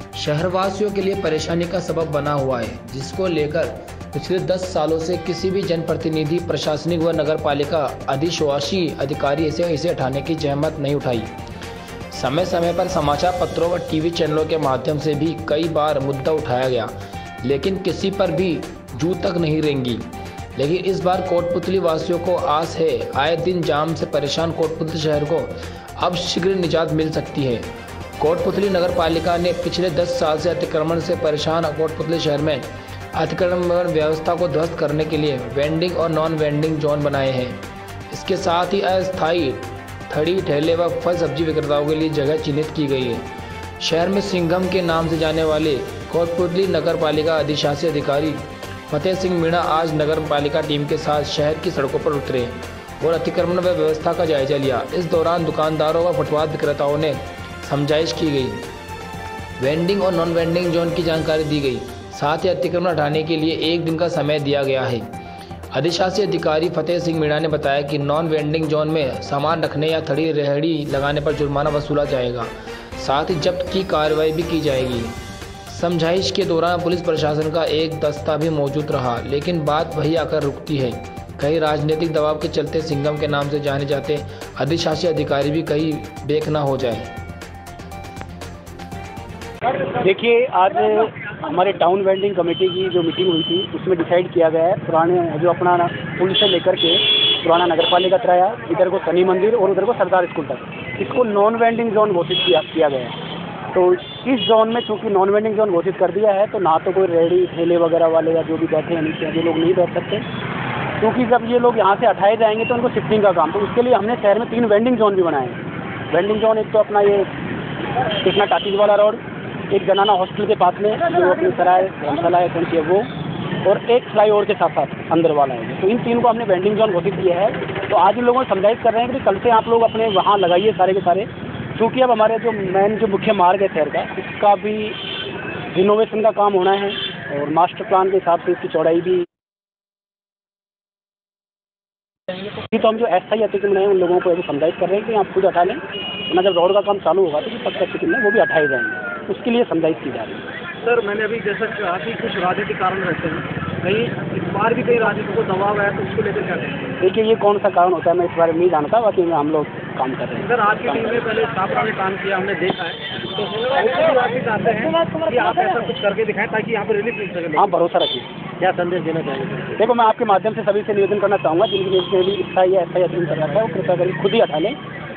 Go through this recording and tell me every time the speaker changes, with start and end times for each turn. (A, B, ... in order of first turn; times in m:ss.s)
0:00.1-0:11.3 A
0:12.1-0:16.9 A
0:17.4-0:20.0 A
0:20.6-0:27.7 A
0:28.2-0:37.6 A
0:38.1-0:43.2 A
0:43.8-0:58.7 A
0:59.6-1:05.1 A
1:05.7-1:27.1 A
1:30.0-1:43.2 B
1:43.7-1:50.2 B
1:51.0-1:57.3 B
1:58.2-1:59.2 B
1:59.7-2:03.1 B
2:03.6-2:15.0 B
2:15.7-2:19.3 B
2:22.7-2:30.5 B
2:30.8-2:36.9 C
2:37.0-2:41.2 B
2:40.4-2:47.7 C
2:47.6-2:48.3 B
2:48.6-2:49.8 C
2:49.8-2:54.8 B